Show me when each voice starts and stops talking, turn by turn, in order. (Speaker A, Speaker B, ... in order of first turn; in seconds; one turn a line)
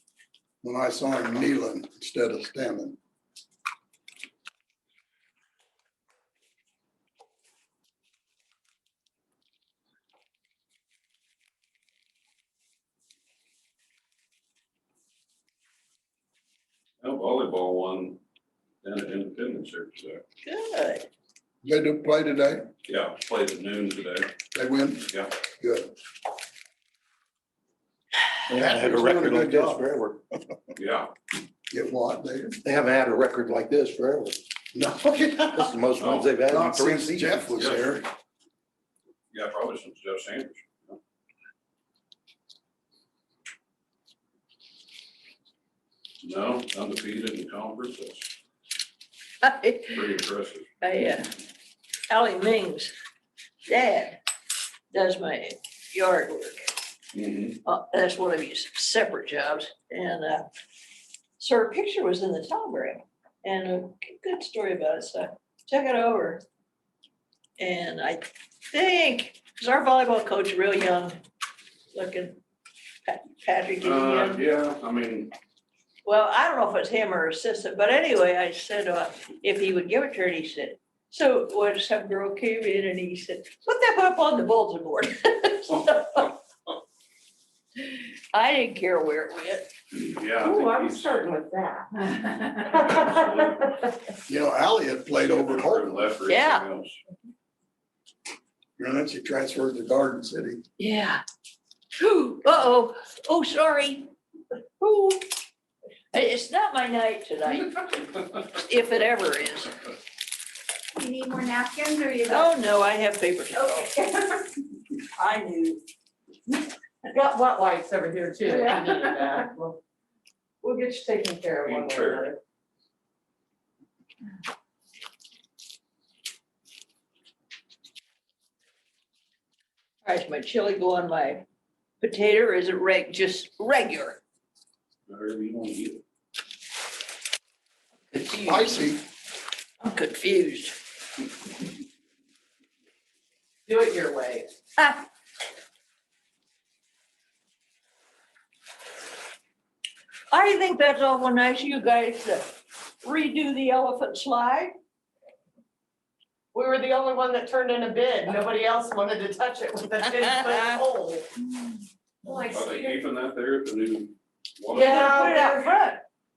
Speaker A: 0.6-3.0
Speaker B: 17.0-18.2
Speaker B: 18.8-20.2
Speaker C: 20.4-21.1
Speaker A: 21.6-22.6
Speaker B: 22.9-24.3
Speaker A: 24.5-25.9
Speaker D: 28.5-30.2
Speaker A: 28.5-29.9
Speaker B: 30.8-31.1
Speaker A: 31.7-32.6
Speaker D: 32.6-34.4
Speaker A: 34.7-35.7
Speaker D: 35.5-37.4
Speaker B: 36.0-36.3
Speaker A: 36.5-38.1
Speaker B: 37.6-38.0
Speaker B: 39.3-41.0
Speaker B: 46.2-48.3
Speaker C: 49.4-50.1
Speaker B: 49.9-50.7
Speaker C: 50.8-51.3
Speaker C: 52.1-52.9
Speaker C: 53.7-54.2
Speaker C: 54.9-56.7
Speaker B: 57.1-57.6
Speaker C: 57.6-60.5
Speaker C: 61.4-66.4
Speaker C: 67.6-71.2
Speaker C: 71.9-72.4
Speaker C: 73.1-74.4
Speaker B: 73.8-75.3
Speaker C: 76.0-86.4
Speaker C: 87.8-89.7
Speaker B: 89.9-91.1
Speaker E: 90.4-91.9
Speaker E: 92.7-93.7
Speaker B: 92.7-93.7
Speaker A: 94.3-96.1
Speaker B: 95.1-97.0
Speaker C: 96.3-96.7
Speaker A: 98.8-100.6
Speaker C: 100.8-101.2
Speaker C: 102.0-104.1
Speaker C: 104.8-105.3
Speaker C: 106.1-109.9
Speaker F: 111.0-112.5
Speaker C: 112.3-114.0
Speaker C: 115.1-115.8
Speaker E: 117.1-119.8
Speaker F: 118.5-118.9
Speaker E: 120.6-122.4
Speaker B: 121.6-122.3
Speaker C: 130.1-131.4
Speaker C: 132.0-134.2
Speaker B: 135.1-136.0
Speaker C: 138.1-138.8
Speaker A: 138.4-139.0
Speaker C: 139.8-140.8
Speaker E: 143.7-144.5
Speaker C: 144.8-145.1
Speaker C: 150.3-152.5
Speaker C: 153.0-154.7
Speaker E: 156.5-161.3
Speaker C: 160.0-160.8
Speaker E: 162.2-163.1
Speaker B: 162.5-165.3
Speaker E: 164.7-165.8
Speaker C: 164.8-166.0